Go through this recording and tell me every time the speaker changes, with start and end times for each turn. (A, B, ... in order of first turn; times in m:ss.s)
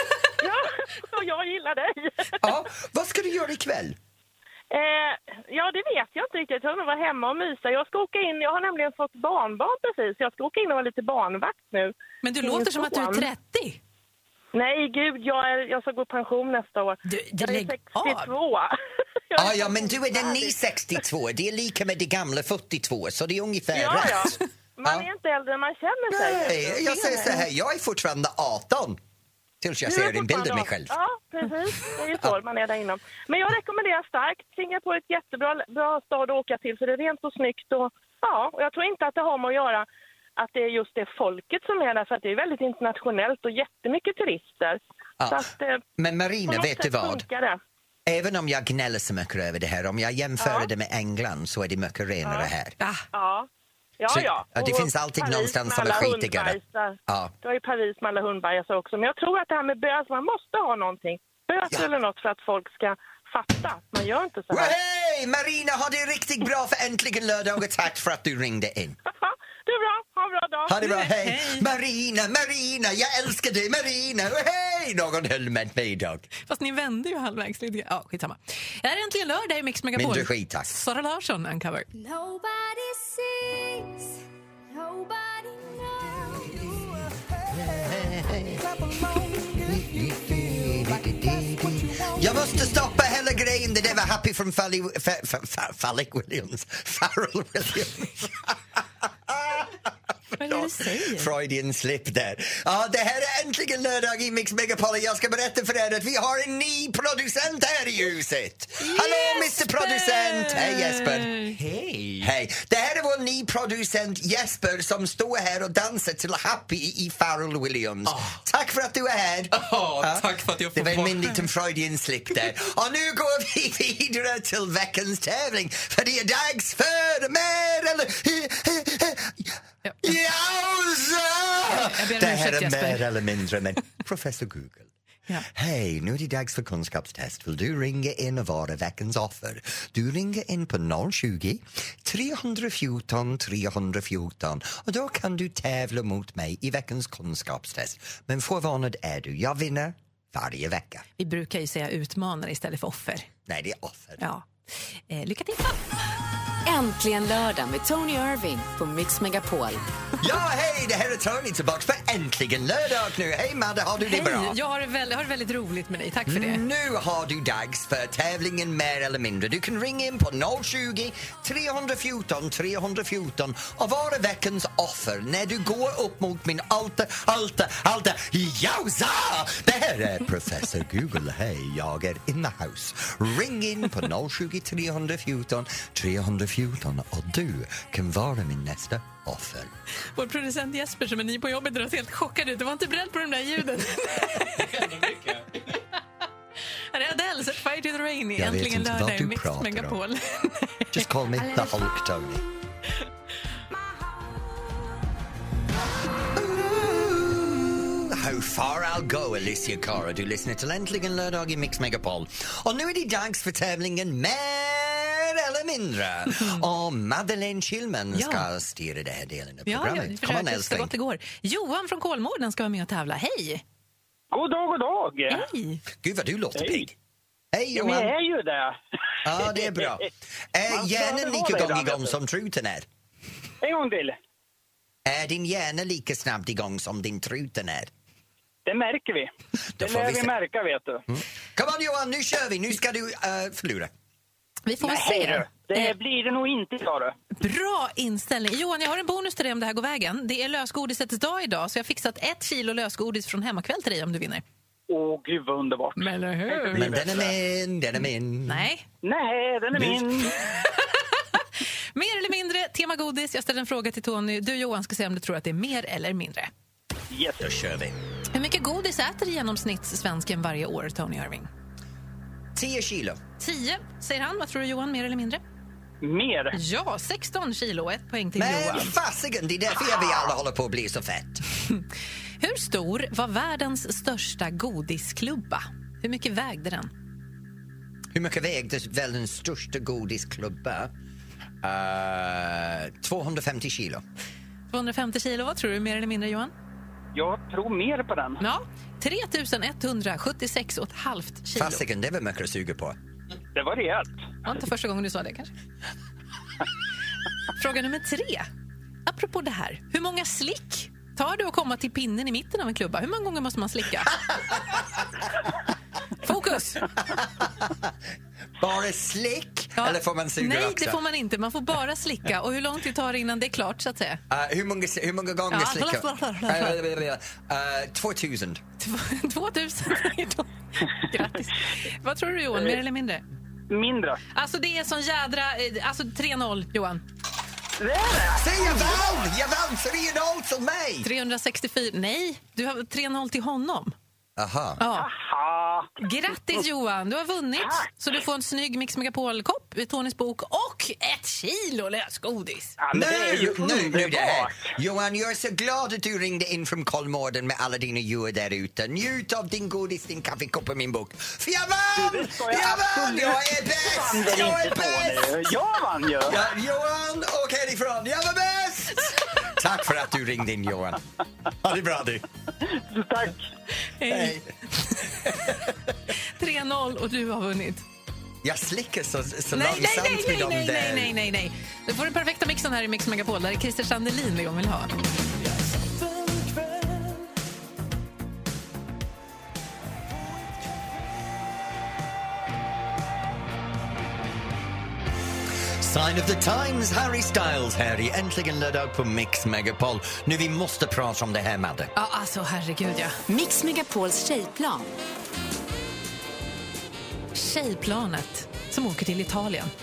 0:00.4-0:02.4 A
0:02.4-0:04.0 B
0:04.7-0:13.3 A
0:12.2-0:13.8 C
0:14.5-0:18.7 A
0:17.0-0:18.3 C
0:19.3-0:20.6 A
0:19.4-0:25.1 B
0:23.7-0:27.5 A
0:26.1-0:29.0 B
0:29.6-0:31.0 B
0:29.9-0:45.8 A
0:45.2-0:45.4 B
0:46.0-0:47.2 B
0:46.5-0:47.6 A
0:48.1-0:52.8 B
0:50.4-0:50.7 A
0:52.2-0:52.5 A
0:53.1-0:53.5 A
0:54.0-1:04.8 A
0:54.1-0:57.3 B
1:04.5-1:09.0 B
1:09.2-1:10.7 A
1:10.7-1:16.3 B
1:10.8-1:11.7 C
1:16.4-1:21.9 C
1:20.0-1:20.8 B
1:21.9-1:24.1 D
1:24.7-1:26.6 D
1:26.6-1:32.7 E
1:27.5-1:28.6 B
1:29.7-1:51.6 B
1:40.4-1:41.3 C
1:48.8-1:51.6 C
1:51.7-1:52.2 E
1:52.2-2:14.9 B
1:59.6-2:01.3 E
2:09.8-2:10.1 C
2:11.6-2:13.1 C
2:15.5-2:31.0 B
2:31.2-2:33.3 C
2:33.5-2:34.2 B
2:34.2-2:34.5 C
2:35.1-2:35.8 C
2:36.6-2:39.8 F
2:40.2-2:44.6 B
2:44.0-2:46.6 C
2:46.3-3:09.7 B
3:10.2-3:15.1 C
3:14.8-3:15.4 E
3:16.9-3:21.7 C
3:18.4-3:20.0 B
3:20.9-3:22.4 B
3:26.4-3:40.9 B
3:38.1-3:38.5 C
3:39.7-3:43.6 C
3:44.3-3:45.5 G
3:45.3-3:45.8 C
3:46.0-3:46.9 B
3:46.6-3:46.9 G
3:47.5-3:48.1 B
3:47.7-3:50.1 G
3:49.2-3:52.9 B
3:50.7-3:52.2 G
3:53.6-3:54.2 G
3:55.0-3:57.9 B
3:58.7-4:01.0 G
3:59.8-4:00.4 B
4:01.1-4:03.9 B
4:04.7-4:06.0 C
4:04.8-4:07.2 G
4:07.4-4:14.4 C
4:14.9-4:17.3 G
4:16.0-4:17.0 C
4:16.7-4:18.7 B
4:18.5-4:18.8 C
4:19.0-4:20.4 G
4:19.8-4:20.0 B
4:20.4-4:26.5 C
4:27.1-4:27.5 G
4:27.4-4:28.0 B
4:28.3-4:31.5 C
4:32.6-4:33.2 B
4:33.4-4:35.4 C
4:36.0-4:36.6 G
4:36.5-4:39.0 C
4:38.4-4:41.4 B
4:42.4-4:46.9 C
4:48.1-4:50.9 B
4:51.6-4:54.0 B
4:54.7-4:56.5 C
4:57.1-4:58.4 G
4:58.4-5:01.8 C
5:01.6-5:03.0 B
5:03.6-5:04.2 G
5:04.4-5:05.5 C
5:07.6-5:08.5 C
5:09.1-5:14.2 C
5:16.2-5:16.9 C
5:17.1-5:17.9 B
5:18.6-5:21.0 B
5:19.8-5:24.2 C
5:24.3-5:28.6 B
5:25.5-5:26.8 C
5:28.8-5:33.3 C
5:33.7-5:34.2 G
5:34.3-5:37.0 C
5:37.8-5:39.0 G
5:38.4-5:41.1 B
5:41.0-5:44.0 C
5:44.4-5:44.8 B
5:44.8-5:45.1 C
5:44.9-5:45.9 G
5:46.0-5:52.8 C
5:47.6-5:47.9 G
5:52.8-5:54.7 G
5:52.9-6:05.6 B
6:02.0-6:06.5 G
6:06.2-6:11.0 B
6:11.6-6:12.3 B
6:12.9-6:13.4 G
6:13.9-6:14.9 C
6:14.1-6:14.5 B
6:16.4-6:17.8 C
6:18.4-6:21.2 B
6:19.5-6:25.0 C
6:35.8-6:41.9 B
6:42.0-6:43.2 C
6:43.3-6:44.9 F
6:47.3-6:49.7 C